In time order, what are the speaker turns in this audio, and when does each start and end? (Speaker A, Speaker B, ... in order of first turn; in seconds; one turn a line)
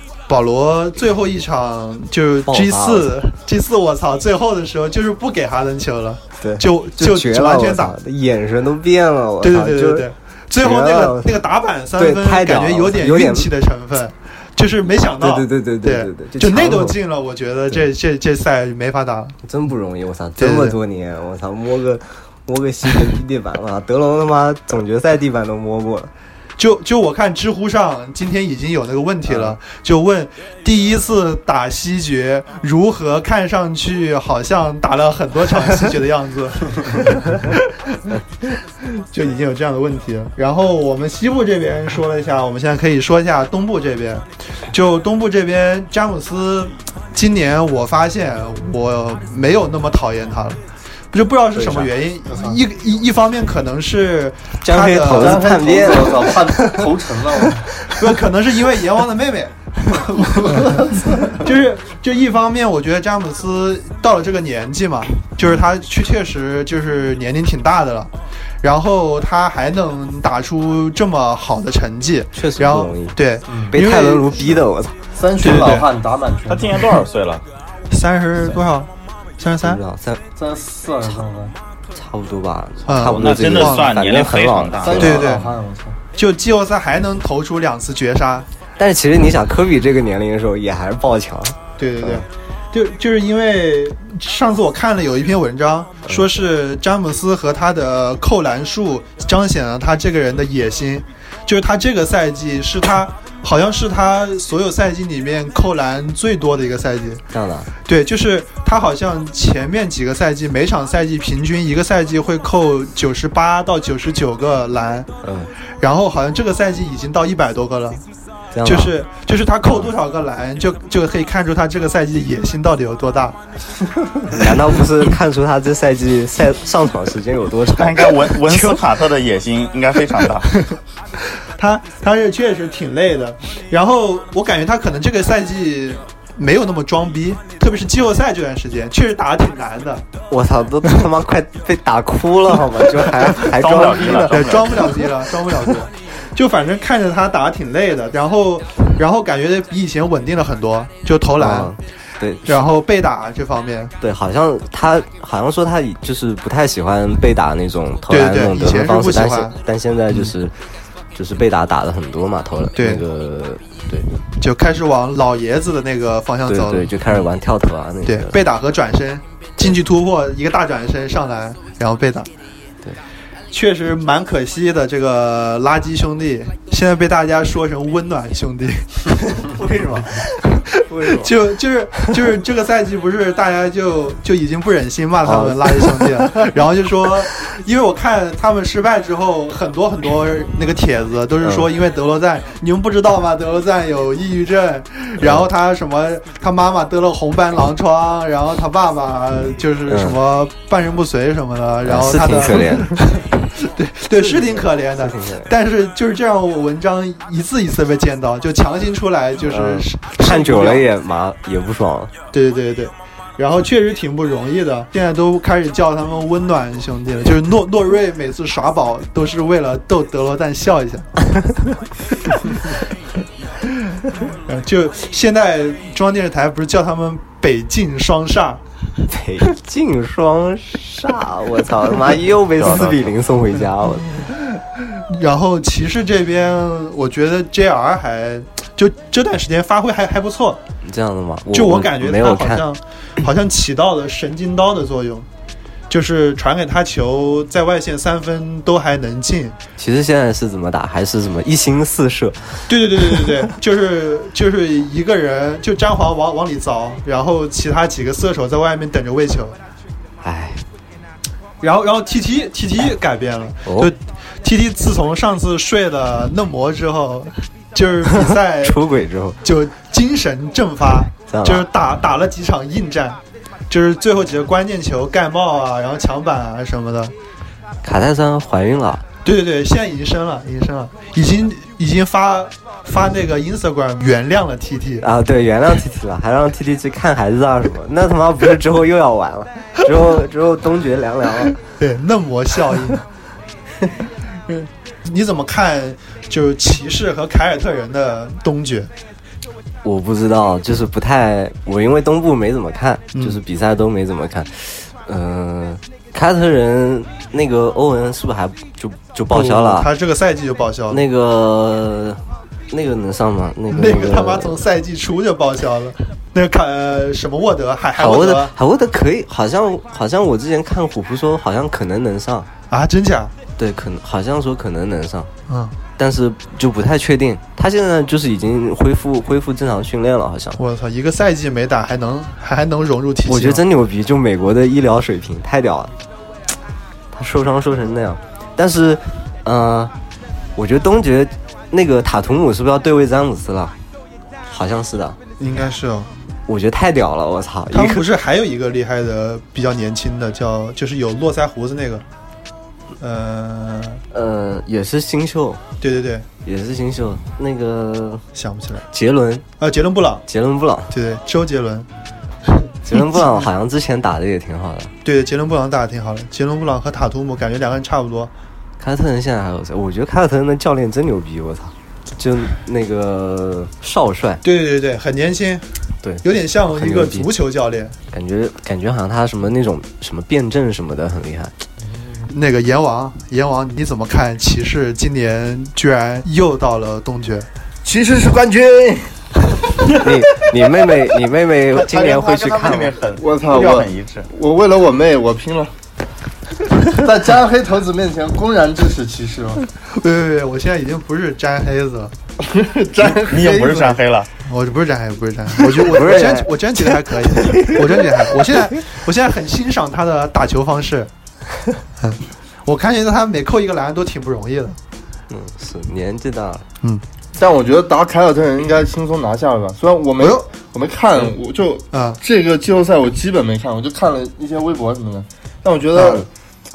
Speaker A: 0.3-8.0
Speaker B: 2.5-3.1
Speaker B: 6.4-11.4
Speaker A: 9.4-19.4
Speaker B: 12.0-13.5
Speaker B: 15.2-17.0
Speaker B: 19.4-26.1
Speaker A: 20.4-20.8
Speaker A: 26.6-38.2
Speaker B: 29.3-29.6
Speaker A: 38.8-50.6
Speaker A: 51.1-55.6
Speaker B: 51.5-51.9
Speaker B: 54.6-56.9
Speaker C: 55.1-57.7
Speaker B: 57.4-58.0
Speaker A: 57.9-74.6
Speaker B: 72.3-73.2
Speaker C: 73.5-73.8
Speaker B: 73.7-75.0
Speaker C: 75.2-76.9
Speaker A: 75.4-75.9
Speaker D: 76.5-77.4
Speaker A: 77.9-79.8
Speaker B: 79.6-80.2
Speaker C: 80.4-81.5
Speaker B: 81.9-85.2
Speaker A: 82.9-83.9
Speaker D: 83.2-85.2
Speaker C: 84.8-86.0
Speaker A: 85.0-85.5
Speaker A: 86.2-88.5
Speaker B: 88.8-92.2
Speaker A: 91.8-107.2
Speaker B: 107.3-107.7
Speaker A: 107.8-115.1
Speaker B: 115.2-115.5
Speaker A: 115.8-118.0
Speaker B: 118.5-119.0
Speaker A: 118.6-123.4
Speaker B: 124.3-128.8
Speaker D: 127.8-130.5
Speaker A: 131.3-140.1
Speaker B: 140.3-144.5
Speaker D: 143.4-145.0
Speaker A: 144.3-151.8
Speaker B: 151.4-152.7
Speaker A: 152.5-153.9
Speaker B: 154.0-160.6
Speaker A: 158.1-159.6
Speaker B: 161.2-164.1
Speaker A: 162.8-163.0
Speaker A: 164.4-167.2
Speaker B: 166.5-168.4
Speaker A: 168.1-172.3
Speaker A: 173.5-179.5
Speaker B: 179.5-181.4
Speaker A: 181.0-210.9
Speaker B: 185.2-186.5
Speaker B: 191.4-191.7
Speaker B: 195.2-195.5
Speaker B: 199.9-200.2
Speaker B: 201.8-203.1
Speaker B: 204.2-205.5
Speaker B: 209.4-212.1
Speaker A: 212.3-221.1
Speaker A: 224.0-228.6
Speaker B: 229.1-234.2
Speaker D: 232.6-233.1
Speaker A: 234.2-240.6
Speaker B: 240.8-242.7
Speaker A: 241.5-245.3
Speaker A: 245.9-249.6
Speaker B: 249.8-253.2
Speaker A: 252.7-259.6
Speaker B: 260.2-260.6
Speaker A: 261.6-268.8
Speaker B: 263.6-263.9
Speaker B: 268.1-269.4
Speaker A: 269.4-277.1
Speaker B: 271.3-271.7
Speaker B: 277.8-279.1
Speaker A: 279.2-285.1
Speaker B: 285.0-291.6
Speaker A: 291.8-293.0
Speaker A: 294.5-298.9
Speaker B: 299.8-309.9
Speaker A: 303.1-303.4
Speaker A: 309.3-311.1
Speaker B: 310.9-314.6
Speaker A: 313.7-318.5
Speaker B: 318.0-322.5
Speaker A: 322.7-323.3
Speaker B: 323.6-325.3
Speaker A: 325.5-325.8
Speaker B: 326.0-330.6
Speaker A: 330.6-333.6
Speaker B: 333.3-335.9
Speaker B: 337.1-339.9
Speaker B: 340.6-343.8
Speaker B: 344.5-345.2
Speaker A: 345.4-346.1
Speaker B: 346.5-348.1
Speaker A: 347.7-352.1
Speaker A: 353.0-354.0
Speaker B: 354.1-355.6
Speaker A: 355.8-356.3
Speaker B: 356.4-358.2
Speaker A: 358.4-358.9
Speaker B: 358.9-359.4
Speaker A: 359.6-360.2
Speaker B: 360.3-360.9
Speaker A: 360.9-361.9
Speaker A: 362.5-363.4
Speaker B: 362.9-364.9
Speaker A: 365.0-368.3
Speaker B: 368.8-374.4
Speaker A: 374.4-375.7
Speaker B: 376.0-377.3
Speaker A: 376.2-378.0
Speaker B: 378.1-381.5
Speaker C: 382.0-382.3
Speaker A: 382.3-387.5
Speaker C: 387.8-389.1
Speaker B: 389.9-392.9
Speaker D: 391.8-394.3
Speaker C: 393.2-395.7
Speaker C: 396.7-399.7
Speaker A: 399.9-402.1
Speaker C: 402.4-404.0
Speaker D: 403.0-404.3
Speaker A: 404.4-411.1
Speaker B: 405.7-408.3
Speaker A: 412.0-414.8
Speaker B: 415.3-416.6
Speaker C: 417.4-426.3
Speaker A: 420.2-420.4
Speaker A: 421.9-422.2
Speaker A: 425.9-426.2